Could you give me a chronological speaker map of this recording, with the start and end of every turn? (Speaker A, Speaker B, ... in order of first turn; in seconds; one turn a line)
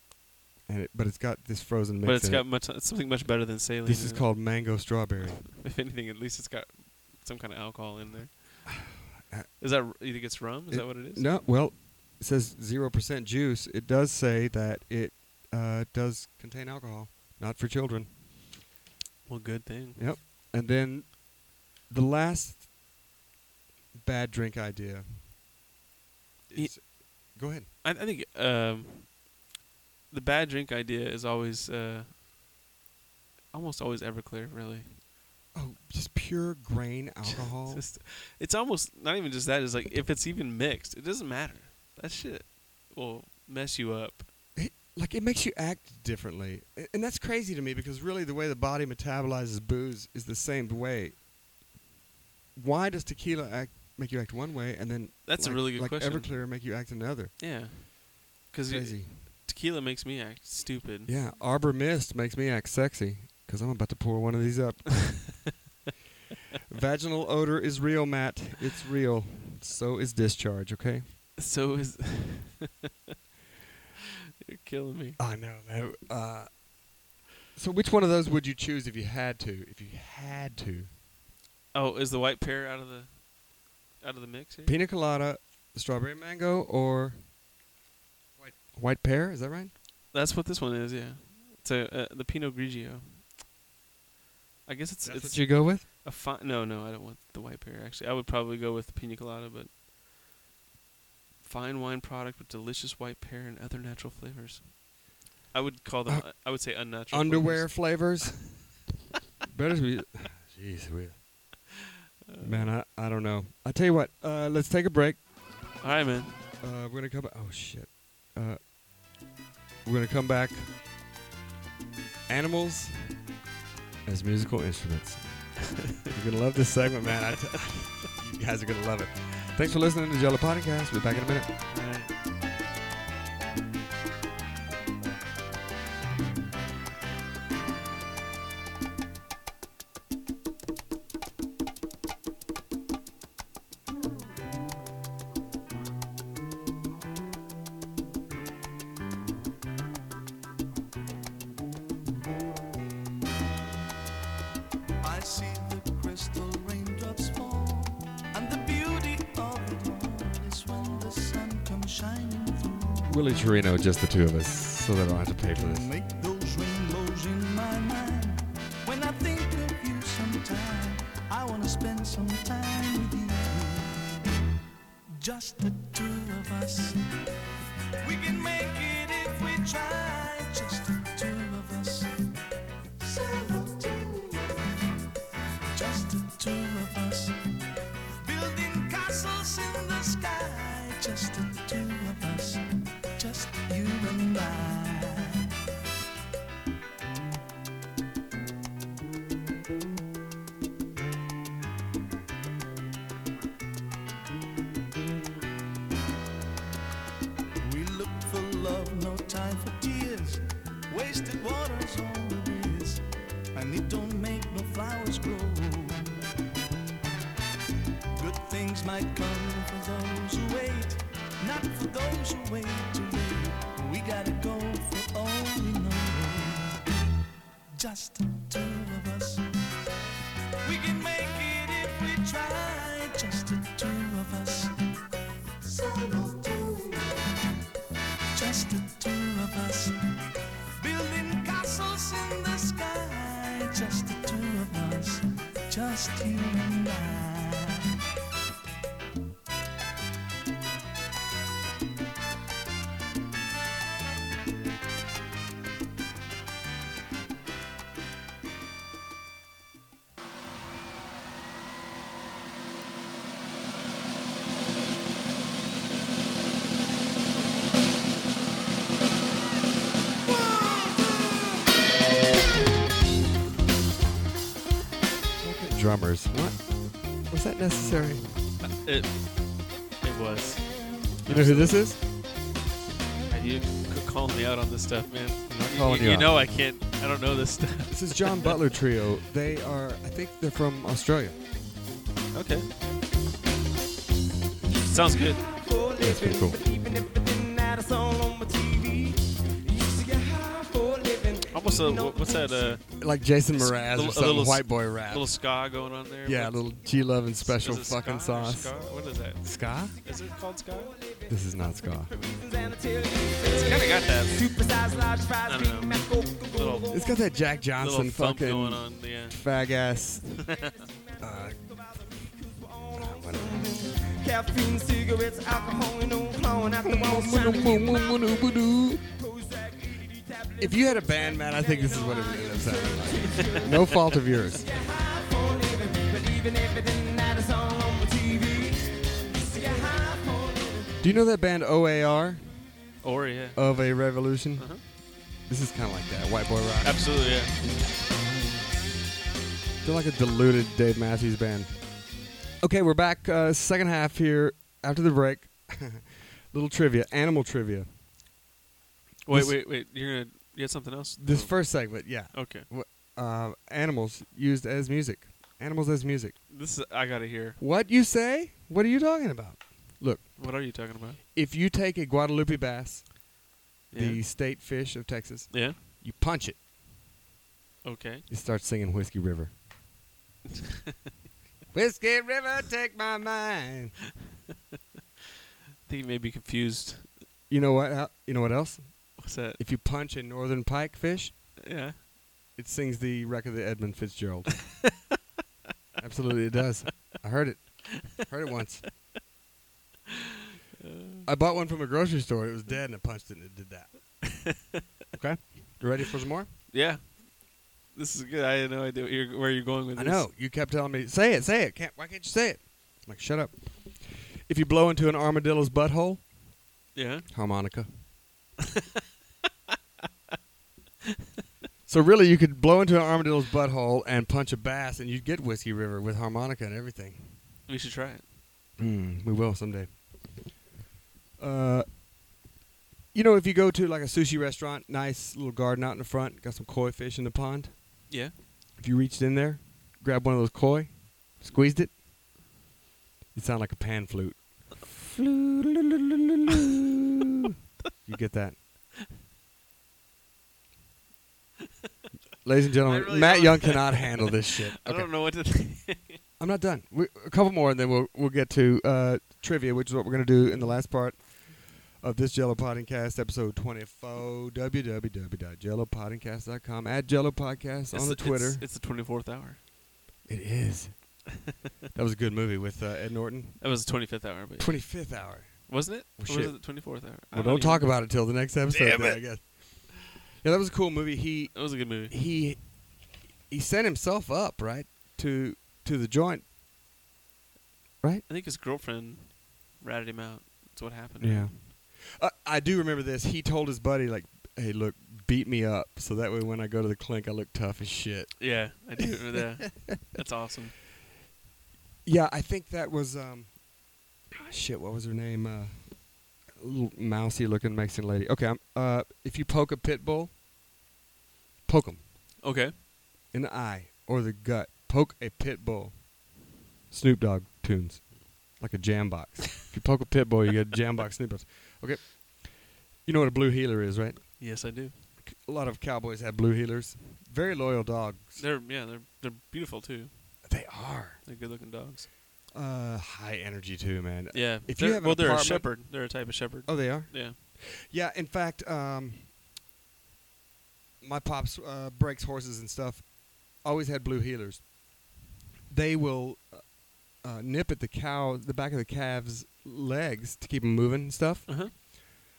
Speaker A: 0.7-2.5
Speaker B: 2.0-4.4
Speaker A: 3.9-5.5
Speaker B: 5.5-8.8
Speaker A: 8.7-9.5
Speaker B: 9.6-11.3
Speaker A: 10.7-18.1
Speaker B: 19.3-20.1
Speaker A: 20.0-22.7
Speaker A: 23.9-25.3
Speaker A: 26.5-27.7
Speaker B: 26.6-29.1
Speaker B: 30.1-32.1
Speaker B: 33.5-34.9
Speaker A: 35.5-37.9
Speaker B: 37.3-44.3
Speaker A: 44.6-51.2
Speaker A: 52.5-57.4
Speaker B: 55.2-56.4
Speaker B: 57.4-61.1
Speaker A: 58.7-59.3
Speaker A: 61.1-65.5
Speaker A: 66.7-71.1
Speaker B: 71.4-72.9
Speaker B: 74.5-75.2
Speaker A: 75.2-76.5
Speaker A: 77.5-80.9
Speaker B: 81.7-83.3
Speaker B: 84.0-84.8
Speaker A: 84.7-87.2
Speaker A: 88.4-89.7
Speaker B: 90.1-93.3
Speaker B: 94.7-99.7
Speaker A: 95.0-95.9
Speaker B: 101.4-104.8
Speaker B: 105.5-108.1
Speaker A: 106.1-106.3
Speaker A: 107.1-108.7
Speaker A: 109.5-111.2
Speaker B: 112.3-112.7
Speaker A: 112.4-115.2
Speaker B: 115.8-116.3
Speaker A: 116.6-118.6
Speaker A: 119.8-120.7
Speaker A: 122.3-123.0
Speaker A: 124.0-131.5
Speaker B: 131.7-132.1
Speaker C: 155.0-163.2
Speaker A: 163.1-165.9
Speaker C: 165.6-174.0
Speaker C: 175.2-177.0
Speaker C: 178.0-182.1
Speaker C: 183.0-183.7
Speaker D: 183.2-184.4
Speaker C: 185.7-187.3
Speaker C: 188.2-192.6
Speaker C: 193.2-195.5
Speaker C: 207.6-213.0
Speaker C: 213.6-216.2
Speaker C: 218.2-226.8
Speaker C: 227.7-229.4
Speaker C: 230.7-234.7
Speaker D: 235.7-237.2
Speaker C: 238.3-239.9
Speaker C: 240.8-247.9
Speaker A: 270.6-270.9
Speaker A: 275.4-278.3
Speaker B: 278.6-279.3
Speaker B: 280.0-281.8
Speaker A: 281.3-282.0
Speaker B: 283.3-288.6
Speaker A: 285.5-286.4
Speaker A: 287.9-291.4
Speaker B: 292.3-292.7
Speaker B: 294.9-295.4
Speaker D: 295.5-301.5
Speaker A: 296.0-296.6
Speaker B: 301.5-303.0
Speaker A: 303.0-305.3
Speaker B: 303.5-306.7
Speaker A: 306.2-308.8
Speaker B: 307.4-311.0
Speaker A: 309.4-310.0
Speaker A: 311.3-312.1
Speaker D: 312.4-313.6
Speaker B: 313.4-314.6
Speaker D: 314.4-316.9
Speaker B: 315.4-317.0
Speaker A: 316.9-320.4
Speaker B: 317.8-319.4
Speaker B: 320.4-320.9
Speaker A: 321.2-321.6
Speaker A: 322.9-324.0
Speaker D: 324.1-328.0
Speaker A: 326.8-329.0
Speaker D: 329.2-330.6
Speaker A: 330.6-334.7
Speaker D: 331.8-333.7
Speaker B: 333.3-333.7
Speaker D: 334.7-340.9
Speaker A: 341.0-342.6
Speaker B: 343.0-343.6
Speaker A: 343.6-344.9
Speaker B: 344.6-344.8
Speaker A: 345.4-347.2
Speaker B: 346.8-347.5
Speaker A: 349.8-351.9
Speaker A: 352.6-357.9
Speaker B: 359.3-362.7
Speaker A: 359.3-359.6
Speaker A: 361.2-366.4
Speaker B: 366.5-367.6
Speaker A: 367.6-370.6
Speaker B: 370.4-371.2
Speaker A: 371.3-373.3
Speaker B: 373.9-374.2
Speaker A: 373.9-376.6
Speaker B: 375.5-375.8
Speaker B: 377.8-378.2
Speaker A: 378.3-379.5
Speaker A: 381.7-384.0
Speaker B: 385.9-387.1
Speaker A: 387.5-391.4
Speaker B: 389.2-389.6
Speaker B: 391.6-392.0
Speaker A: 392.6-394.7
Speaker A: 396.0-398.9
Speaker B: 400.8-401.3
Speaker A: 401.2-403.9
Speaker B: 404.2-404.8
Speaker A: 405.1-406.5
Speaker B: 406.7-410.3
Speaker A: 409.9-416.3
Speaker B: 416.9-417.3
Speaker A: 417.3-417.9
Speaker A: 421.9-427.4
Speaker B: 427.7-428.2
Speaker A: 428.8-430.4
Speaker A: 431.4-431.9
Speaker A: 433.1-438.1
Speaker B: 438.1-438.3
Speaker A: 438.8-441.9
Speaker A: 443.3-447.5
Speaker A: 448.1-448.6
Speaker A: 452.4-455.1
Speaker B: 452.9-456.2
Speaker A: 456.4-468.6
Speaker B: 467.9-469.6
Speaker A: 470.3-471.3
Speaker A: 471.9-473.6
Speaker B: 473.6-475.1
Speaker A: 474.6-486.5
Speaker B: 475.7-478.0
Speaker B: 478.7-479.2
Speaker B: 481.5-482.1
Speaker B: 488.3-491.6
Speaker A: 491.2-498.5
Speaker B: 498.4-500.8
Speaker A: 499.4-500.2
Speaker A: 502.1-503.6
Speaker A: 504.3-510.3
Speaker A: 511.7-512.0
Speaker B: 512.4-512.7
Speaker A: 513.3-516.1
Speaker A: 516.9-524.5
Speaker B: 524.4-525.0
Speaker A: 525.2-528.4
Speaker B: 528.4-530.4
Speaker A: 530.5-531.2
Speaker B: 531.2-532.1
Speaker A: 532.5-539.3
Speaker B: 534.3-537.4
Speaker A: 541.0-544.7
Speaker A: 545.7-551.9
Speaker B: 551.5-551.7